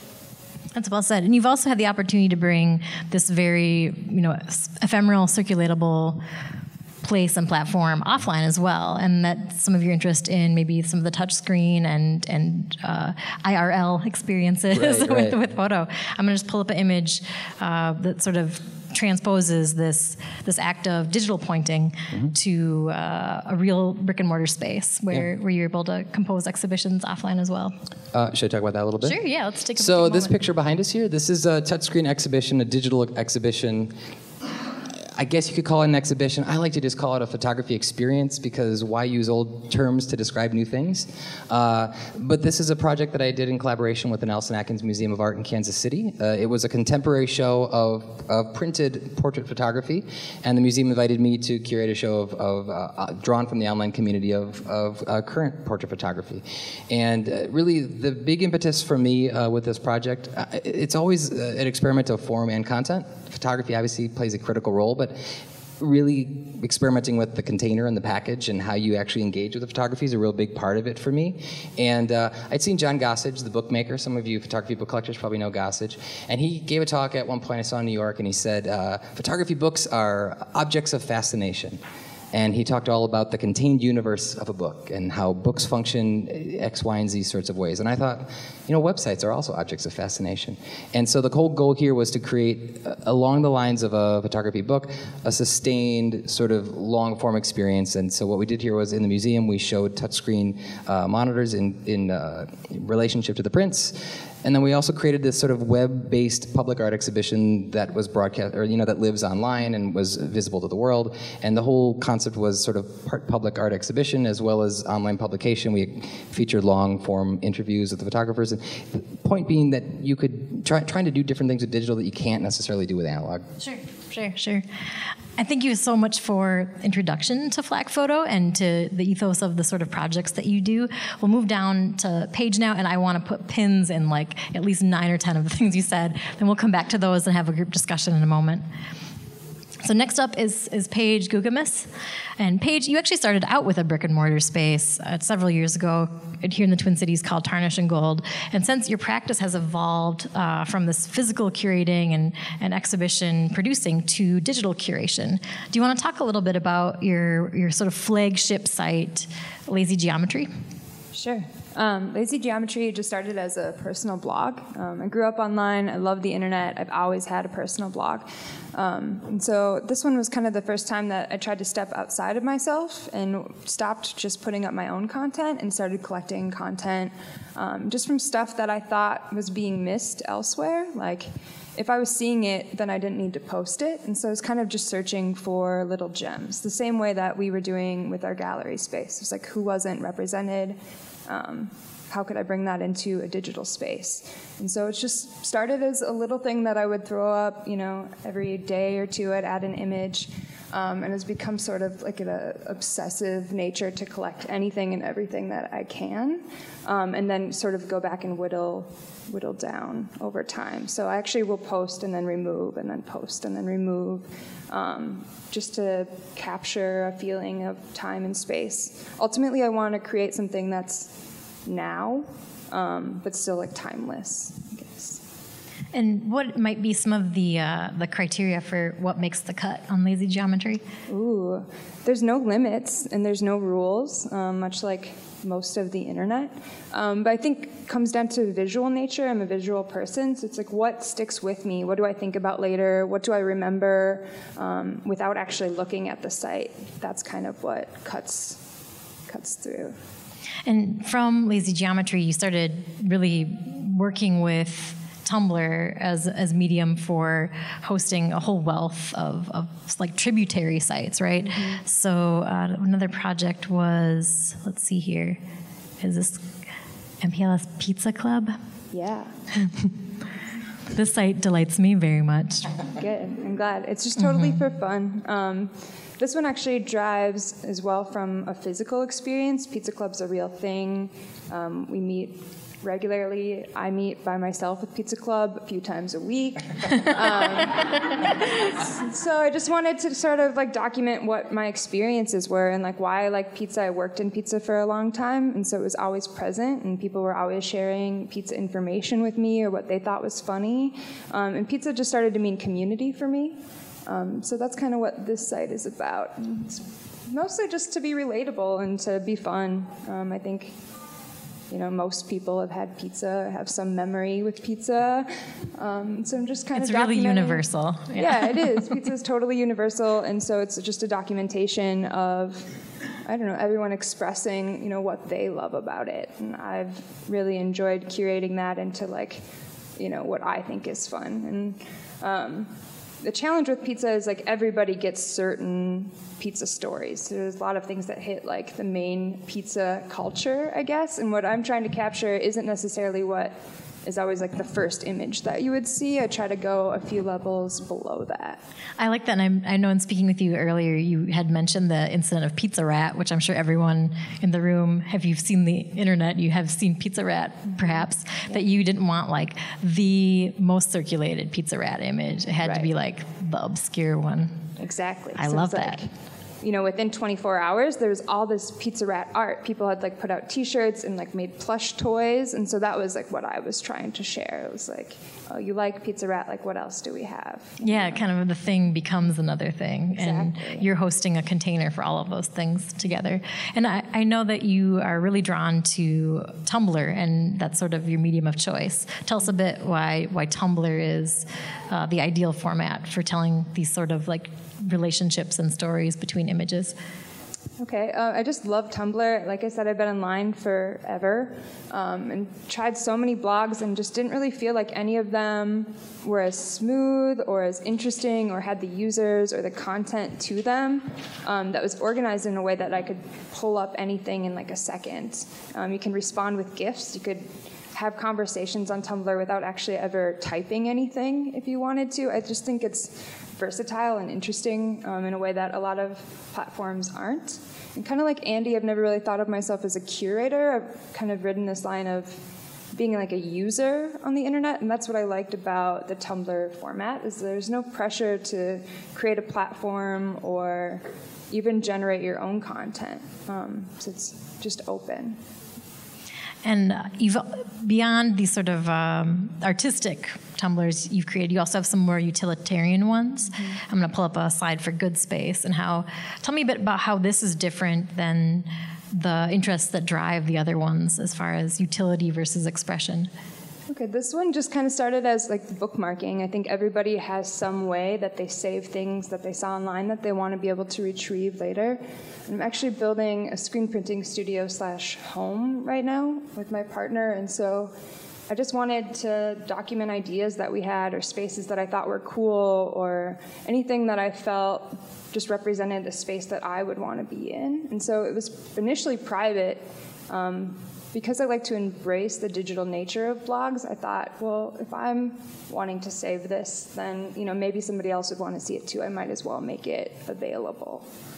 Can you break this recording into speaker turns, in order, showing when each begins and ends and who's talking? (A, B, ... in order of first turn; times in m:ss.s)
0:00.7-0:06.2 A
0:07.0-0:27.7 A
0:14.7-0:15.4 B
0:28.1-0:29.2 B
0:29.0-0:30.4 A
0:29.8-0:33.9 B
0:35.1-1:05.2 B
1:05.8-1:21.8 B
1:22.3-2:03.4 B
2:03.6-2:04.6 A
2:05.4-2:18.6 A
2:19.8-2:21.9 A
2:22.4-2:40.5 A
2:41.1-3:41.1 C
3:41.6-3:45.2 C
3:45.9-3:50.8 A
3:51.1-4:08.6 C
4:09.3-4:09.9 C
4:10.6-4:25.4 A
4:21.5-4:21.8 C
4:26.0-4:26.4 A
4:27.2-4:28.5 A
4:28.9-4:29.3 C
4:29.6-4:29.9 A
4:30.9-4:32.7 A
4:33.0-5:10.7 C
4:34.2-4:34.6 A
5:11.7-5:22.7 C
5:16.7-5:18.9 A
5:23.2-5:29.4 C
5:30.0-5:32.7 C
5:33.2-5:48.6 C
5:49.0-6:04.5 A
5:57.7-5:58.6 C
6:02.6-6:02.9 C
6:04.8-6:06.1 C
6:05.4-6:06.0 A
6:06.6-6:18.2 C
6:17.8-6:36.9 A
6:20.2-6:20.8 C
6:37.8-7:12.4 C
7:12.9-7:25.4 C
7:26.6-7:43.3 A
7:43.9-7:57.9 C
7:58.5-8:21.0 C